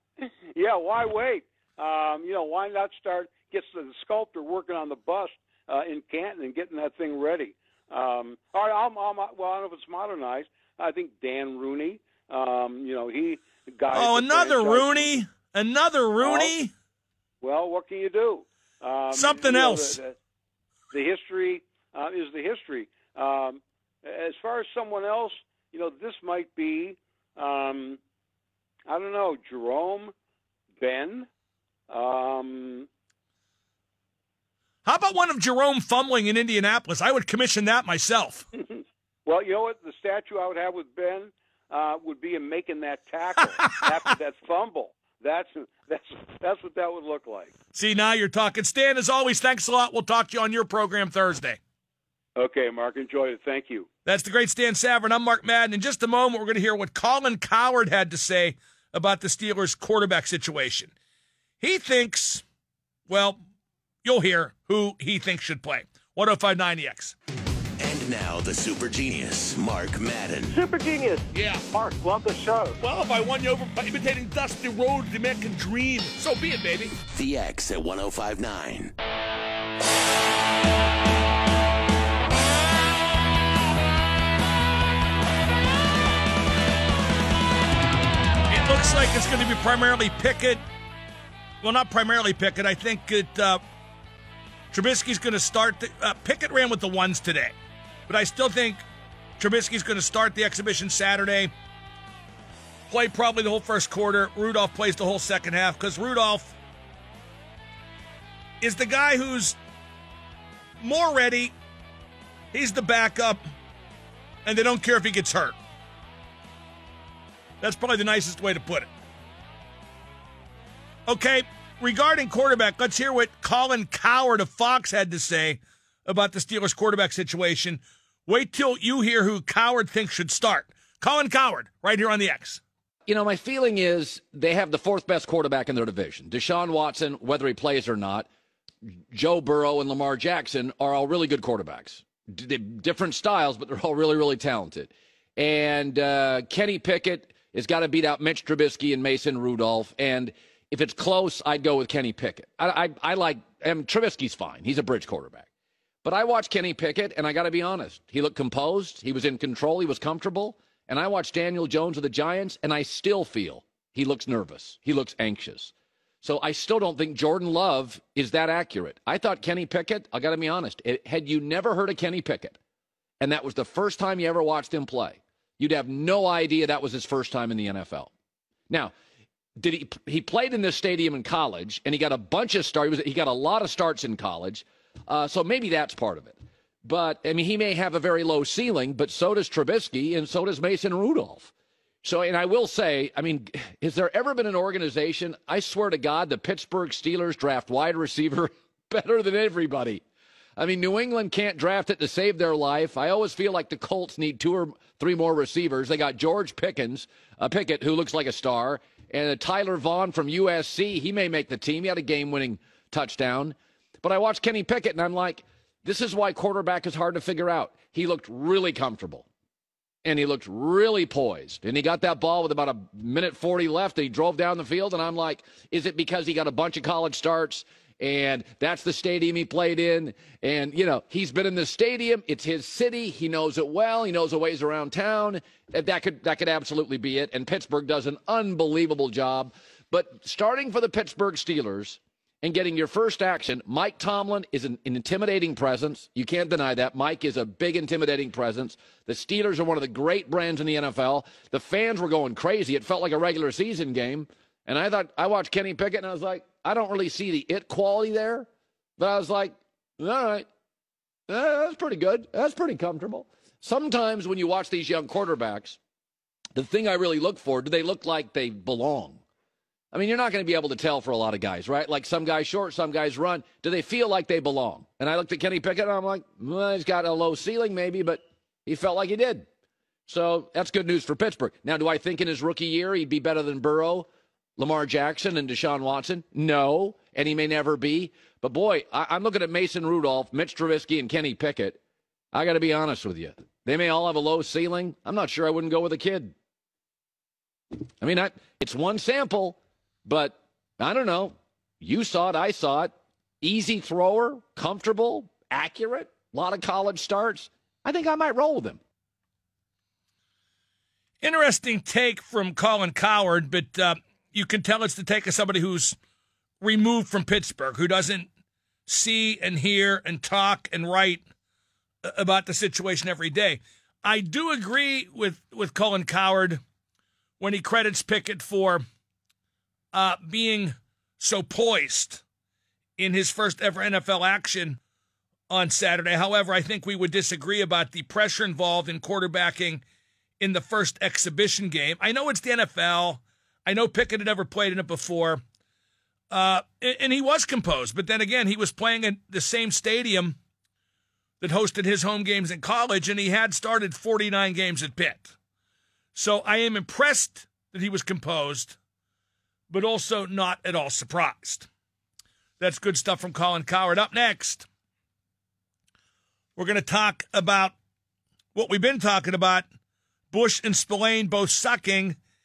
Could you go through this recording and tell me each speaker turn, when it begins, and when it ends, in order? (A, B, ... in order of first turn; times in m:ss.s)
0:00.2-0:15.2 A
0:13.9-0:16.7 B
0:16.2-0:16.5 A
0:17.4-0:20.2 A
0:19.1-0:20.0 B
0:20.9-0:28.0 A
0:28.9-0:30.1 A
0:30.8-0:31.3 A
0:31.9-0:32.9 A
0:34.8-0:38.5 B
0:38.6-0:47.5 A
0:47.7-0:51.6 B
0:52.4-0:53.9 A
0:54.1-1:00.9 B
1:01.6-1:02.4 B
1:03.1-1:03.4 B
1:04.0-1:07.2 B
1:07.8-1:10.6 C
1:10.5-1:12.8 D
1:11.3-1:11.7 B
1:12.8-1:17.0 B
1:17.1-1:18.9 C
1:28.5-1:30.6 B
1:31.6-1:33.6 B
1:34.7-1:37.5 B
1:38.1-1:38.8 B
1:39.4-1:41.5 B
1:42.9-1:46.6 B
1:48.6-1:49.6 B
1:50.8-1:51.5 B
1:52.5-1:53.4 B
1:54.4-1:55.6 B
1:57.6-1:58.9 B
2:01.1-2:12.6 B
2:13.1-2:18.3 E
2:19.1-2:35.5 E
2:36.0-2:45.7 E
2:46.2-2:52.6 E
2:53.2-2:58.1 E
2:59.6-3:11.5 E
3:12.0-3:20.0 E
3:20.6-3:39.2 E
3:40.0-4:18.5 E
4:19.0-4:20.5 E
4:21.3-4:25.8 E
4:26.6-4:29.2 E
4:29.9-4:39.5 E
4:40.1-4:51.8 E
4:52.3-4:56.3 E
4:58.0-5:08.8 E
5:11.2-5:16.0 B
5:16.6-5:18.3 B
5:18.9-5:21.2 B
5:22.0-5:26.6 B
5:27.4-5:28.8 B
5:29.9-5:32.2 B
5:33.0-5:34.8 B
5:35.5-5:39.8 B
5:40.4-5:45.4 B
5:46.3-5:50.4 B
5:51.4-5:55.3 B
5:56.1-5:58.8 B
5:59.7-6:01.7 B
6:02.6-6:04.7 B
6:06.6-6:07.7 B
6:08.6-6:09.6 B
6:10.3-6:12.2 B